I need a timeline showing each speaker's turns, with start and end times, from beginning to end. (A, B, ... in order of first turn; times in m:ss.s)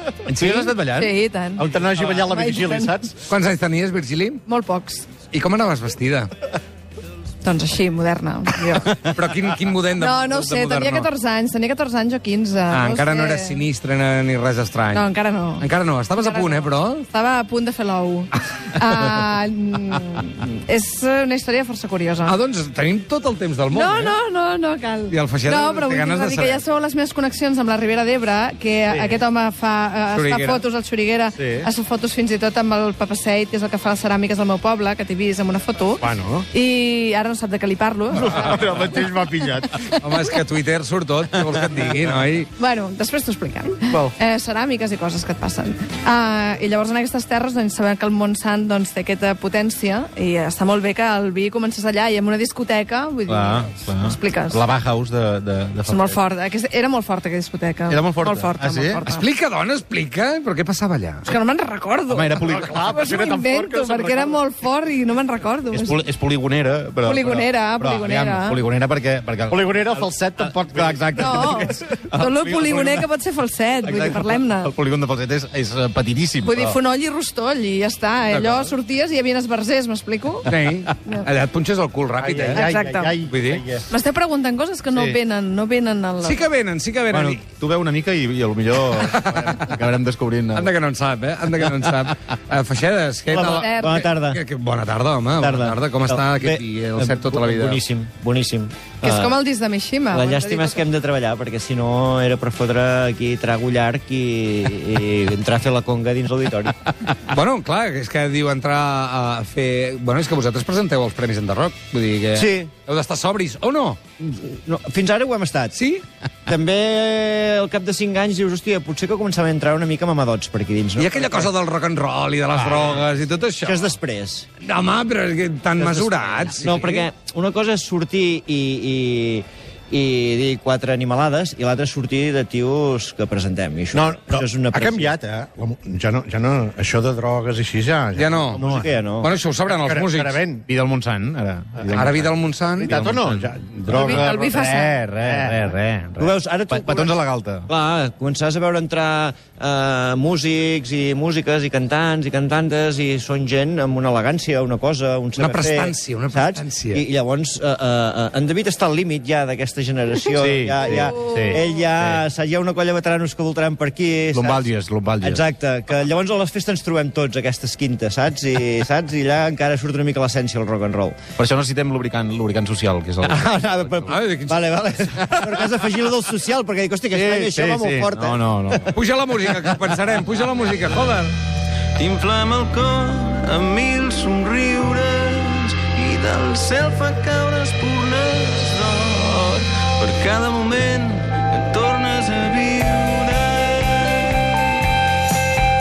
0:00.2-0:01.1 A
0:00.4-0:01.6 B
0:01.6-0:03.1 C
0:02.3-0:02.9 B
0:03.2-0:04.4 D
0:04.4-0:05.1 B
0:05.2-0:06.3 D
0:07.4-0:08.9 B
0:08.9-0:11.1 D
0:10.0-0:13.6 B
0:12.7-0:17.0 D
0:14.9-0:15.6 B
0:16.2-0:22.4 B
0:18.7-0:19.1 D
0:22.2-0:24.2 D
0:23.7-0:38.3 B
0:25.1-0:26.6 D
0:30.1-0:30.6 D
0:31.4-0:31.7 C
0:36.0-0:36.5 C
0:38.1-0:39.8 C
0:39.9-0:42.5 D
0:42.6-0:54.6 B
0:43.9-0:44.2 C
0:53.3-0:56.2 A
0:55.8-0:59.2 B
0:57.9-0:59.0 A
0:59.0-1:01.3 D
1:01.2-1:02.4 B
1:02.1-1:02.9 A
1:02.4-1:04.4 C
1:02.9-1:06.0 B
1:05.7-1:13.0 A
1:07.0-1:08.6 B
1:09.5-1:11.3 C
1:11.2-1:14.7 B
1:13.8-1:16.8 A
1:16.4-1:20.5 B
1:18.3-1:18.7 D
1:20.4-1:23.6 D
1:22.2-1:23.9 C
1:22.6-1:23.2 B
1:23.9-1:26.4 B
1:26.2-1:27.4 D
1:27.1-1:30.7 A
1:28.9-1:29.6 D
1:29.3-1:29.6 C
1:30.5-1:37.8 D
1:33.5-1:33.9 B
1:33.6-1:34.4 E
1:35.3-1:39.4 E
1:39.0-1:40.8 B
1:40.1-1:46.8 E
1:47.0-1:54.0 D
1:52.3-1:52.7 E
1:54.2-1:55.7 E
1:55.7-1:56.0 D
1:56.4-2:01.5 E
2:01.0-2:03.9 D
2:02.5-2:02.9 E
2:02.8-2:03.1 A
2:03.6-2:04.5 E
2:04.6-2:07.1 D
2:05.8-2:15.1 E
2:13.9-2:18.9 C
2:18.1-2:18.6 D
2:18.6-2:19.3 E
2:19.2-2:20.4 D
2:19.7-2:20.6 C
2:20.7-2:22.3 A
2:21.9-2:23.0 D
2:22.8-2:25.6 C
2:22.9-2:27.7 A
2:24.0-2:24.9 B
2:26.2-2:27.2 E
2:27.7-2:44.7 E
2:35.4-2:37.0 D
2:40.4-2:42.2 A
2:44.3-2:45.4 A
2:45.2-2:51.2 E
2:51.4-2:54.1 A
2:53.2-2:58.8 E
2:54.0-2:54.8 D
2:55.3-2:55.9 A
2:57.1-2:58.9 A
2:58.9-3:01.3 D
2:59.5-2:59.8 E
3:01.9-3:14.2 F